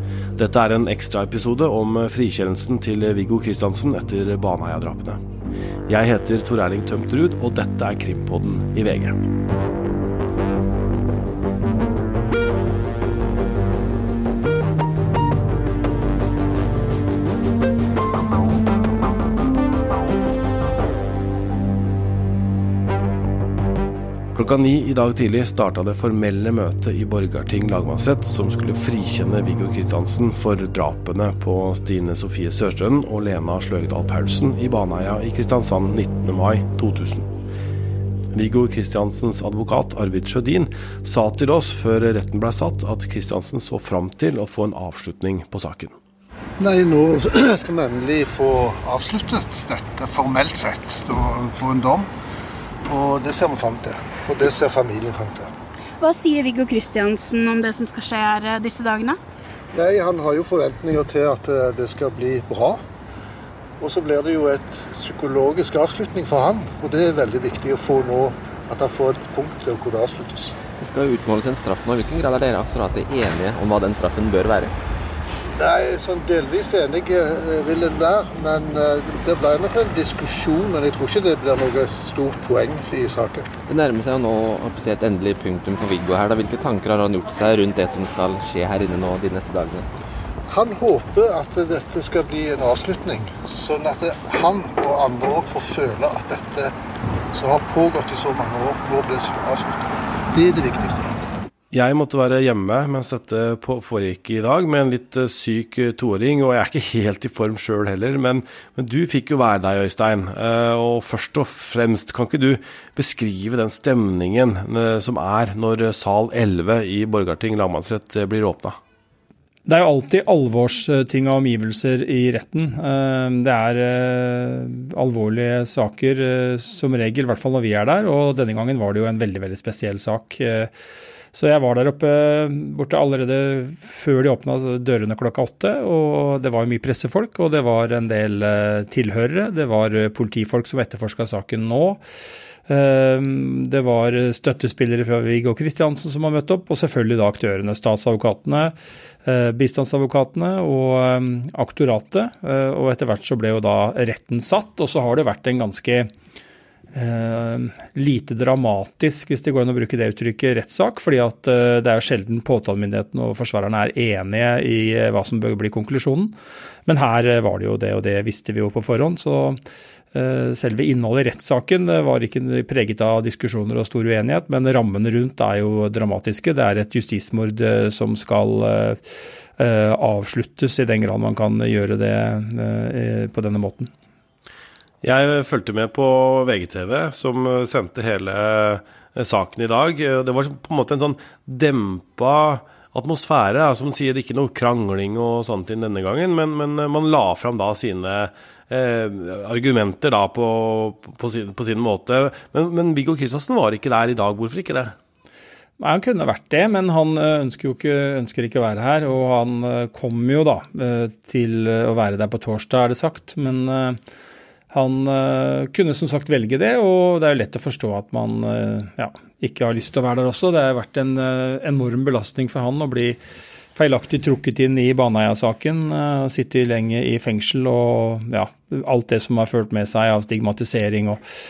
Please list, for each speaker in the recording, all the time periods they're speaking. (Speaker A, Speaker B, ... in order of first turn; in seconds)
Speaker A: 0.3-5.2, 5.9-9.2, 24.3-37.3, 38.3-45.9, 101.7-118.8, 185.0-204.9
Speaker B: 46.6-52.1, 52.8-55.5, 59.7-62.8, 63.8-70.5, 75.6-83.5, 90.5-96.7, 97.3-101.3
Speaker C: 56.0-59.2
Speaker D: 70.8-74.7, 83.7-89.8
Speaker E: 119.7-130.7, 131.3-142.0, 142.7-148.7, 149.2-156.1, 156.9-166.3, 166.8-169.6, 170.1-179.0, 179.6-183.9, 205.8-214.0, 214.7-223.2, 223.7-231.2